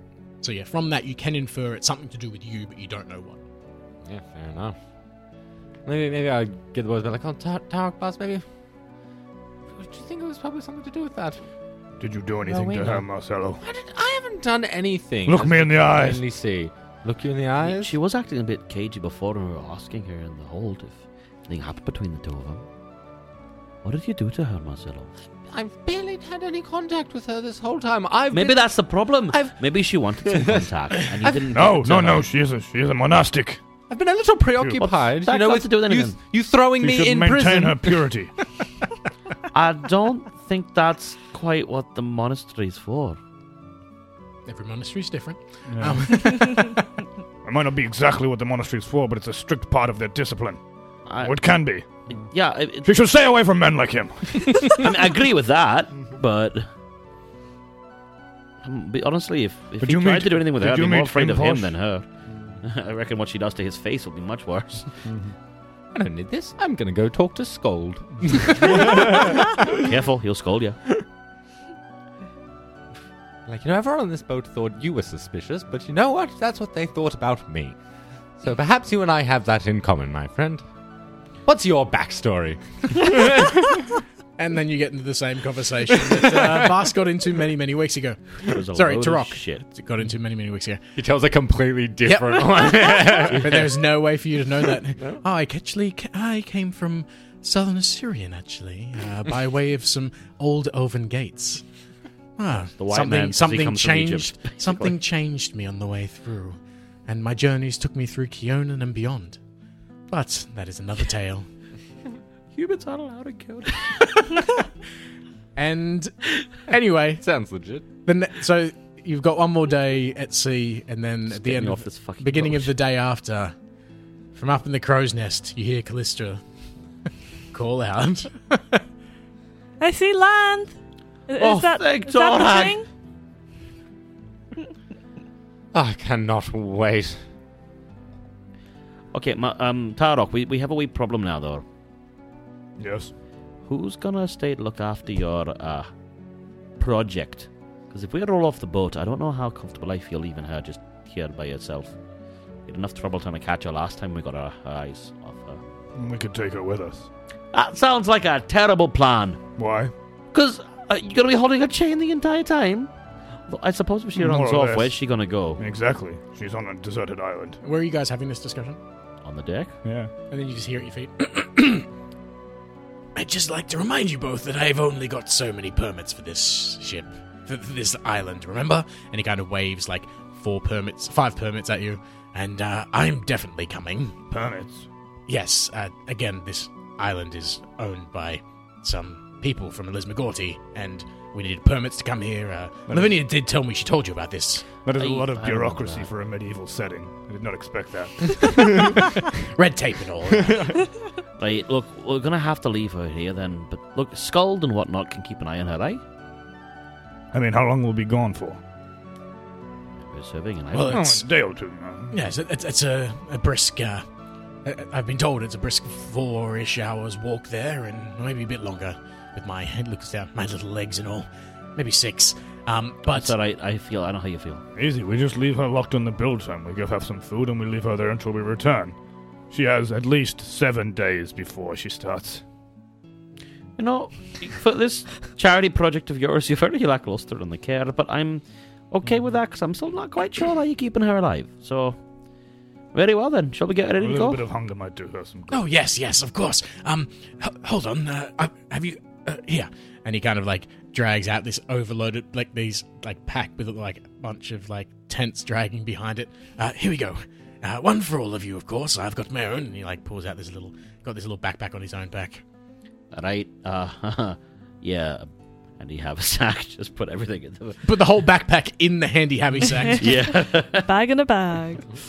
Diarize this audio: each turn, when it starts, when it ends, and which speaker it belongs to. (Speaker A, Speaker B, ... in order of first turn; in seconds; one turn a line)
Speaker A: 0.4-3.4
Speaker B: 4.0-4.8
Speaker B: 5.8-8.4
Speaker B: 9.7-11.4
Speaker C: 12.0-13.6
Speaker B: 12.4-13.0
Speaker B: 13.6-17.9
Speaker C: 15.2-16.2
Speaker D: 17.6-22.6
Speaker D: 23.8-25.1
Speaker B: 25.5-28.7
Speaker D: 28.3-32.3
Speaker B: 29.3-29.5
Speaker B: 30.2-30.7
Speaker C: 31.5-33.6
Speaker B: 33.9-38.0
Speaker D: 34.8-36.1
Speaker C: 36.8-38.3
Speaker D: 39.5-43.2
Speaker A: 44.5-46.8
Speaker C: 45.7-46.1
Speaker C: 47.4-50.6
Speaker D: 51.0-52.9
Speaker C: 51.2-52.3
Speaker C: 52.8-54.9
Speaker D: 54.7-56.6
Speaker D: 58.6-62.1
Speaker C: 59.8-61.7
Speaker C: 62.3-62.6
Speaker D: 62.6-65.0
Speaker C: 65.0-65.3
Speaker B: 65.9-69.4
Speaker C: 68.7-69.4
Speaker D: 69.7-70.8
Speaker B: 73.5-77.8
Speaker B: 78.4-80.6
Speaker B: 81.4-83.8
Speaker A: 84.4-90.8
Speaker B: 85.9-86.7
Speaker D: 88.4-89.6
Speaker B: 91.0-93.7
Speaker A: 92.0-101.6
Speaker A: 102.4-109.4
Speaker D: 102.8-104.9
Speaker A: 110.1-111.5
Speaker D: 112.5-114.1
Speaker A: 115.5-117.2
Speaker B: 117.2-117.8
Speaker A: 118.0-123.5
Speaker D: 121.3-122.7
Speaker A: 124.3-126.4
Speaker A: 127.5-128.8
Speaker E: 129.8-130.7
Speaker E: 131.3-132.8
Speaker D: 131.4-132.8
Speaker B: 135.7-137.2
Speaker D: 139.1-141.6
Speaker C: 142.8-143.1
Speaker D: 143.7-145.9
Speaker D: 146.8-151.9
Speaker D: 152.7-155.6
Speaker C: 155.9-157.1
Speaker D: 157.5-159.4
Speaker C: 159.6-159.9
Speaker D: 160.3-162.9
Speaker D: 163.5-165.6
Speaker C: 164.2-164.9
Speaker C: 165.6-167.6
Speaker A: 167.6-168.8
Speaker D: 169.2-169.8
Speaker C: 169.8-170.1
Speaker A: 170.3-171.9
Speaker A: 173.1-184.2
Speaker C: 184.3-184.9
Speaker A: 185.3-194.7
Speaker C: 192.9-193.1
Speaker C: 194.8-199.1
Speaker D: 195.0-196.1
Speaker A: 198.4-198.9
Speaker A: 199.5-200.7
Speaker C: 200.4-200.8
Speaker D: 201.4-206.0
Speaker C: 207.3-208.6
Speaker D: 210.0-211.1
Speaker A: 210.7-211.3
Speaker C: 210.8-212.2
Speaker A: 212.1-214.0
Speaker A: 214.6-223.3
Speaker D: 223.1-224.6
Speaker C: 224.7-228.9
Speaker C: 229.5-232.4
Speaker D: 233.8-242.0
Speaker D: 242.9-244.4
Speaker C: 244.0-245.6
Speaker A: 245.5-262.4
Speaker D: 263.1-267.9
Speaker A: 267.8-270.1
Speaker D: 270.0-270.9
Speaker E: 270.3-271.8